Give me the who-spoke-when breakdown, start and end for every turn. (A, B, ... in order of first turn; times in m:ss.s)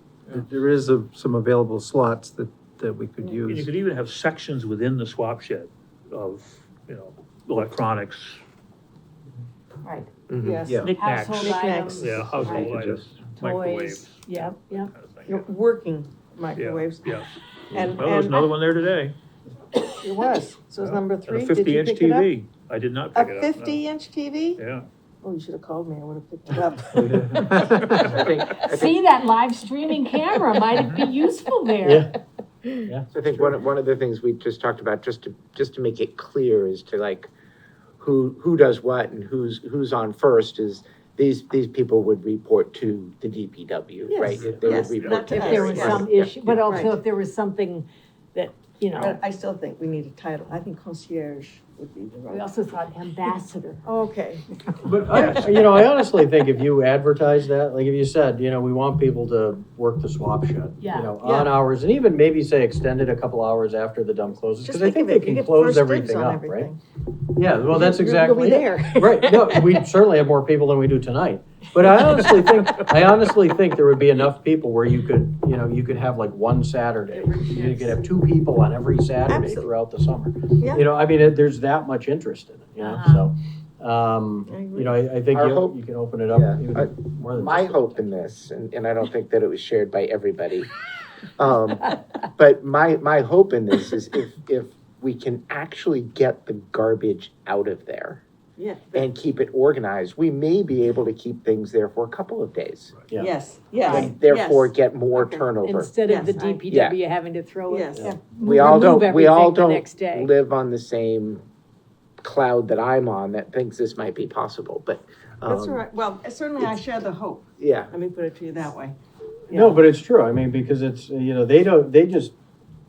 0:00.3-0:03.6 A
0:03.3-0:08.4 B
0:09.8-0:10.1 C
0:10.3-0:10.7 D
0:10.4-0:12.2 E
0:10.7-0:10.9 A
0:10.8-0:15.5 B
0:10.9-0:12.8 C
0:12.7-0:13.0 A
0:13.4-0:14.9 C
0:15.2-0:18.5 E
0:16.5-0:19.2 B
0:19.9-0:22.3 E
0:20.8-0:23.8 B
0:23.1-0:24.6 E
0:24.6-0:24.9 B
0:25.2-0:27.4 E
0:27.1-0:27.4 F
0:27.4-0:28.1 B
0:27.9-0:29.0 D
0:28.5-0:32.1 C
0:30.8-0:31.0 B
0:31.8-0:32.1 F
0:33.1-0:37.3 D
0:38.0-0:46.6 D
0:44.1-0:46.1 E
0:44.4-0:45.6 B
0:45.3-0:49.2 C
0:46.7-0:47.0 E
0:48.9-0:52.5 E
0:52.3-0:53.8 C
0:53.8-0:54.4 E
0:54.8-1:06.7 F
1:00.8-1:01.1 C
1:01.2-1:01.5 E
1:04.6-1:06.8 E
1:07.3-1:28.1 F
1:07.7-1:09.3 E
1:17.5-1:17.9 C
1:19.3-1:19.7 E
1:20.6-1:20.9 E
1:22.8-1:23.3 C
1:24.5-1:25.0 E
1:25.3-1:25.8 D
1:26.3-1:30.7 D
1:31.4-1:38.2 D
1:38.6-1:39.1 E
1:38.9-1:42.9 D
1:43.2-1:45.5 E
1:43.8-1:44.1 C
1:43.8-1:45.9 D
1:45.6-1:50.3 C
1:46.0-1:46.6 E
1:46.7-1:47.0 D
1:47.7-1:48.2 E
1:48.4-1:51.4 D
1:52.2-1:55.8 D
1:55.4-1:58.9 E
1:57.6-1:57.9 D
1:59.5-1:59.8 E
1:59.5-2:02.3 F